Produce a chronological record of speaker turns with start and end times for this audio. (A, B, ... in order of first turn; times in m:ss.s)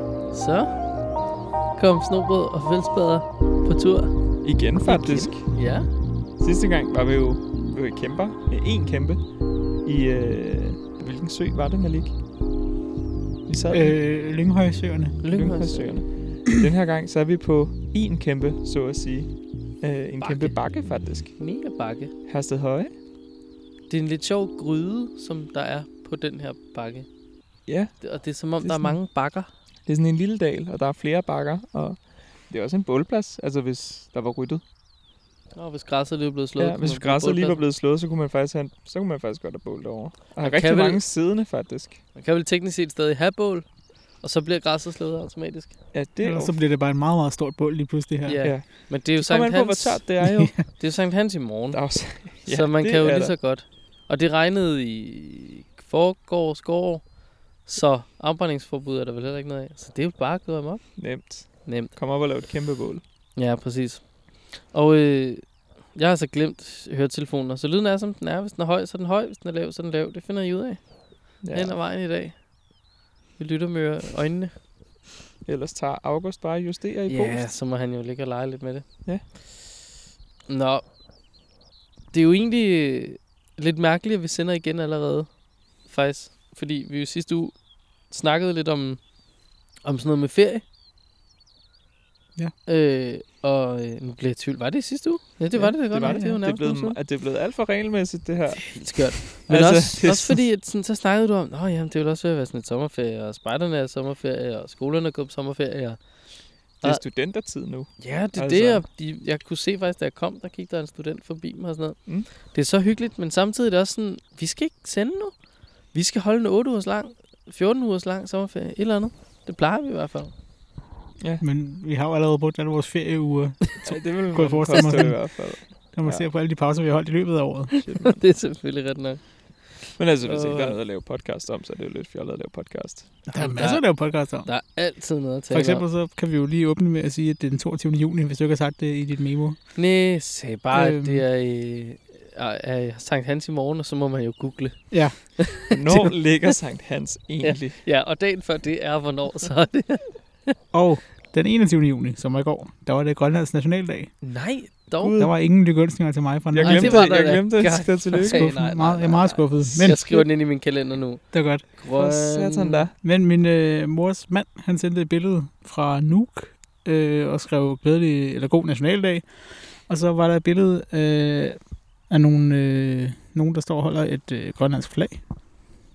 0:00.3-0:01.2 A
0:01.7-0:05.9 A
0:04.4-0:12.2 B
0:13.5-0:14.0 B
0:13.7-0:15.2 C
0:15.2-0:16.0 A
0:15.3-0:21.4 B
0:20.2-0:22.1 A
0:22.2-0:22.9 B
0:23.9-0:27.1 A
0:27.6-0:29.0 B
0:28.0-0:29.5 A
0:29.8-0:34.6 B
0:35.5-0:37.6 A
0:36.6-0:42.0 B
0:40.4-0:41.1 A
0:42.1-0:45.8 A
0:45.9-0:46.6 B
0:46.2-0:48.5 C
0:48.2-1:01.9 A
0:48.4-0:50.8 B
0:50.2-0:50.6 C
0:51.7-0:53.4 B
1:01.0-1:03.0 B
1:03.3-1:12.5 A
1:11.4-1:11.8 B
1:13.4-1:14.5 A
1:15.4-1:17.5 B
1:17.1-1:19.4 A
1:20.5-1:20.8 A
1:22.1-1:29.1 A
1:29.8-1:30.6 A
1:32.6-1:37.0 A
1:35.5-1:40.5 B
1:36.0-1:36.4 C
1:38.6-1:47.1 A
1:46.8-1:47.9 B
1:48.0-2:00.3 A
1:48.3-1:48.8 C
2:01.2-2:01.4 B
2:01.4-2:07.8 C
2:03.8-2:06.2 B
2:07.8-2:08.3 B
2:08.0-2:10.8 A
2:10.0-2:13.2 B
2:13.3-2:15.8 A
2:13.3-2:14.5 C
2:15.5-2:19.8 C
2:19.7-2:26.3 A
2:20.7-2:21.2 C
2:24.9-2:25.4 C
2:25.7-2:27.8 B
2:27.4-2:30.6 A
2:30.7-2:34.2 C
2:34.2-2:35.1 A
2:35.0-2:35.3 B
2:35.2-2:37.2 C
2:36.5-2:38.6 B
2:36.6-2:42.8 A
2:38.2-2:40.1 C
2:39.8-2:40.2 B
2:41.3-2:41.6 C
2:41.9-2:42.9 B
2:43.0-2:55.3 C